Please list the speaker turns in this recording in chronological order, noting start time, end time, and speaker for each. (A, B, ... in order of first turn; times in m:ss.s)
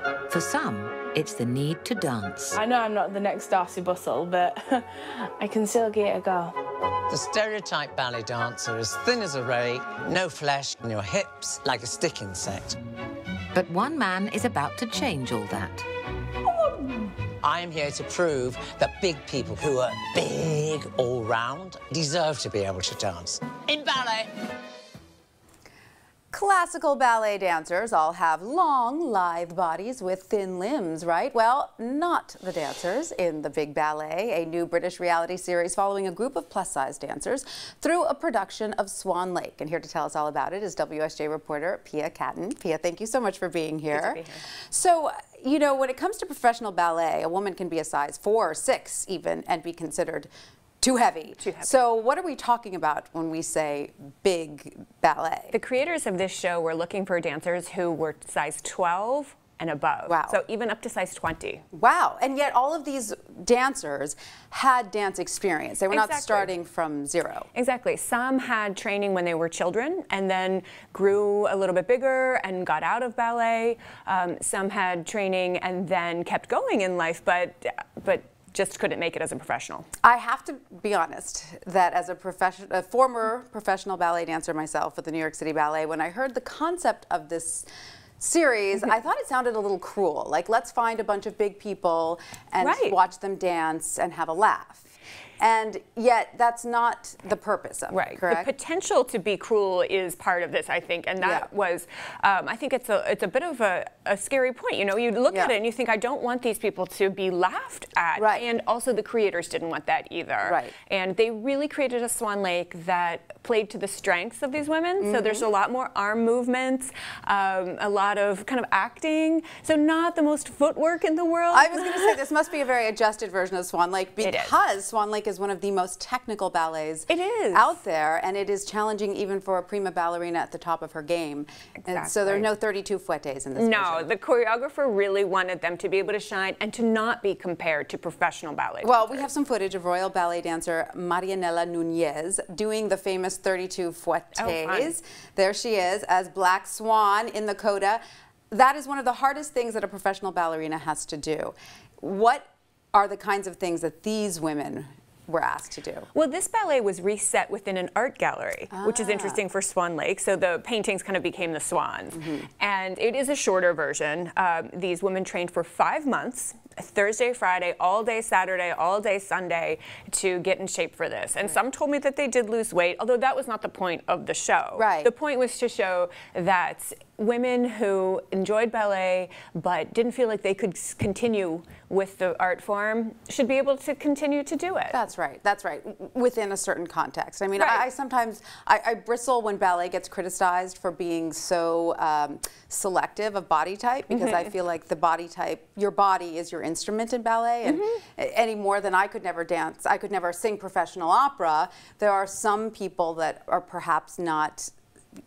0:00.3-0:02.6 A
0:02.6-0:04.9 B
0:05.4-0:06.5 B
0:07.1-0:12.8 C
0:13.5-0:15.9 A
0:17.4-0:24.3 C
0:26.3-0:50.3 D
0:43.9-0:44.4 E
0:50.8-0:55.6 D
0:51.4-0:51.8 E
0:55.5-1:01.6 E
1:00.1-1:00.4 D
1:01.7-1:07.5 D
1:05.9-1:06.5 E
1:07.5-1:19.9 E
1:20.0-1:27.7 D
1:28.2-1:38.5 D
1:32.6-1:33.0 E
1:37.9-2:02.2 E
1:41.2-1:41.5 D
1:45.3-1:45.6 D
1:48.2-1:48.5 D
1:50.4-1:50.8 D
1:55.0-1:55.5 D
2:01.5-2:14.1 D
2:04.2-2:04.5 E
2:07.1-2:07.8 E
2:11.8-2:12.5 E
2:13.6-2:19.3 E
2:18.8-2:36.1 D
2:24.4-2:25.0 E
2:36.1-3:05.0 E
2:38.7-2:39.4 D
2:42.1-2:42.5 D
2:54.8-2:55.1 D
3:04.9-3:24.7 D
3:07.6-3:07.8 E
3:14.1-3:14.4 E
3:17.6-3:18.0 E